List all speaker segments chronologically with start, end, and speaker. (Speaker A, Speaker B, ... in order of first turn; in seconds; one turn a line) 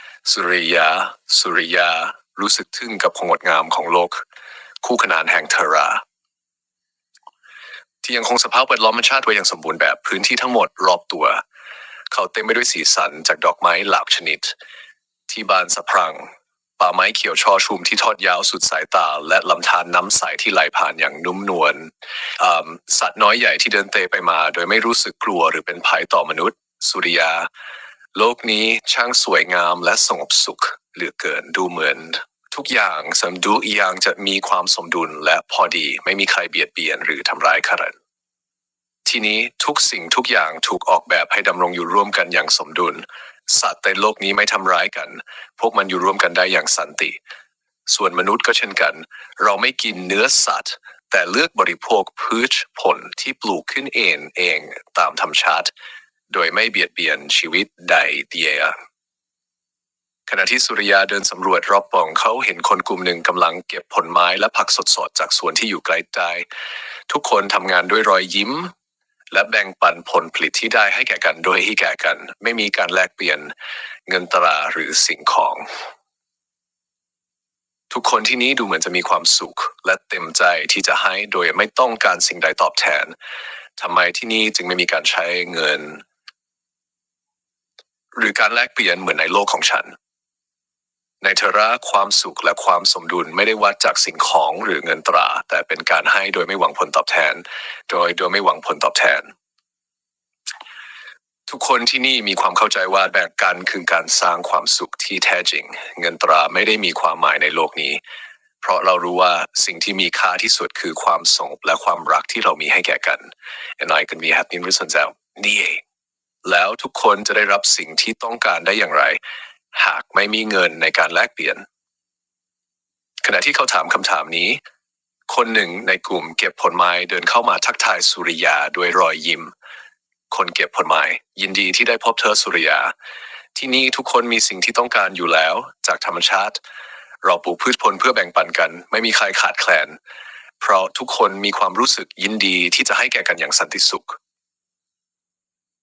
Speaker A: 0.2-4.2
Speaker A: 4.8-6.0
Speaker A: 8.0-11.4
Speaker A: 12.1-14.6
Speaker A: 15.3-27.5
Speaker A: 28.1-38.0
Speaker A: 39.1-47.2
Speaker A: 47.9-55.7
Speaker A: 56.3-58.8
Speaker A: 60.3-66.5
Speaker A: 67.1-68.7
Speaker A: 69.3-73.5
Speaker A: 74.1-75.7
Speaker A: 77.9-83.1
Speaker A: 83.8-86.0
Speaker A: 88.1-89.9
Speaker A: 91.2-99.3
Speaker A: 101.5-108.0
Speaker A: 108.6-115.8
Speaker A: 116.5-119.2
Speaker A: 119.7-121.7
Speaker A: 123.2-124.6
Speaker A: 125.3-129.5
Speaker A: 130.3-132.9
Speaker A: 133.6-136.6
Speaker A: 137.2-140.0
Speaker A: 140.6-144.2